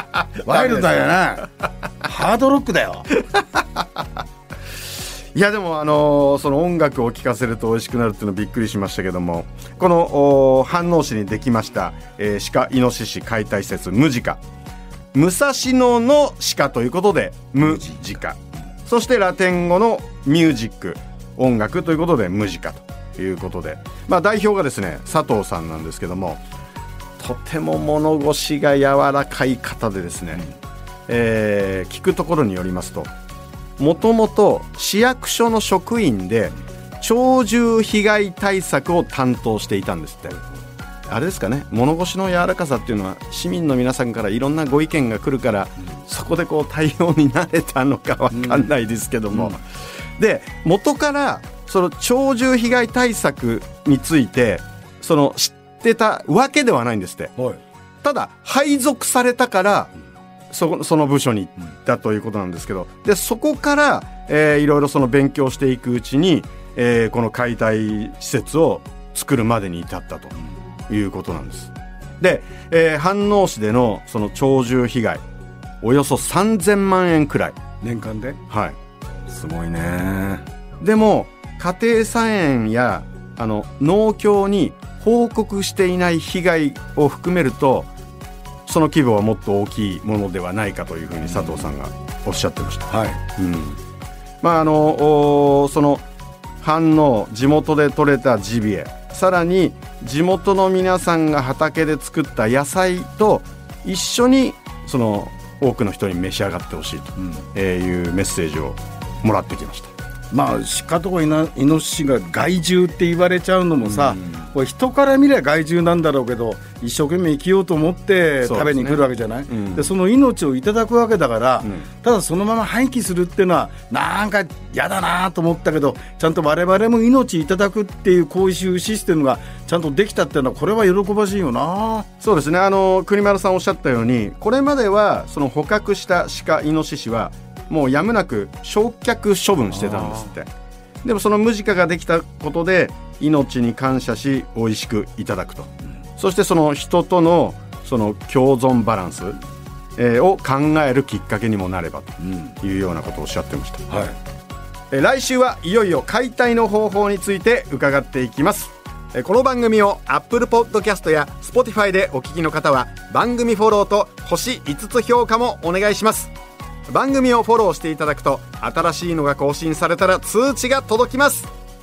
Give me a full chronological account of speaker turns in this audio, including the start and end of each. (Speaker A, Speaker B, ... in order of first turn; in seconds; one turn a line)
Speaker A: 0.1-0.9
Speaker B: 0.4-1.5
Speaker B: 2.0-3.1
Speaker A: 3.4-3.8
Speaker A: 5.3-14.4
Speaker A: 15.1-26.4
Speaker A: 27.2-30.5
Speaker A: 31.1-33.1
Speaker A: 33.8-40.4
Speaker A: 41.1-57.3
Speaker A: 58.0-59.9
Speaker A: 60.5-70.3
Speaker A: 70.9-75.2
Speaker A: 75.8-77.6
Speaker B: 77.8-78.4
Speaker A: 78.5-78.8
Speaker B: 79.3-80.5
Speaker A: 80.8-87.9
Speaker A: 88.7-93.8
Speaker B: 92.9-93.2
Speaker A: 94.4-96.0
Speaker A: 96.6-109.9
Speaker B: 110.3-132.1
Speaker A: 118.4-119.9
Speaker A: 132.2-140.5
Speaker A: 141.0-149.4
Speaker A: 150.0-154.0
Speaker A: 154.9-166.3
Speaker A: 166.9-171.5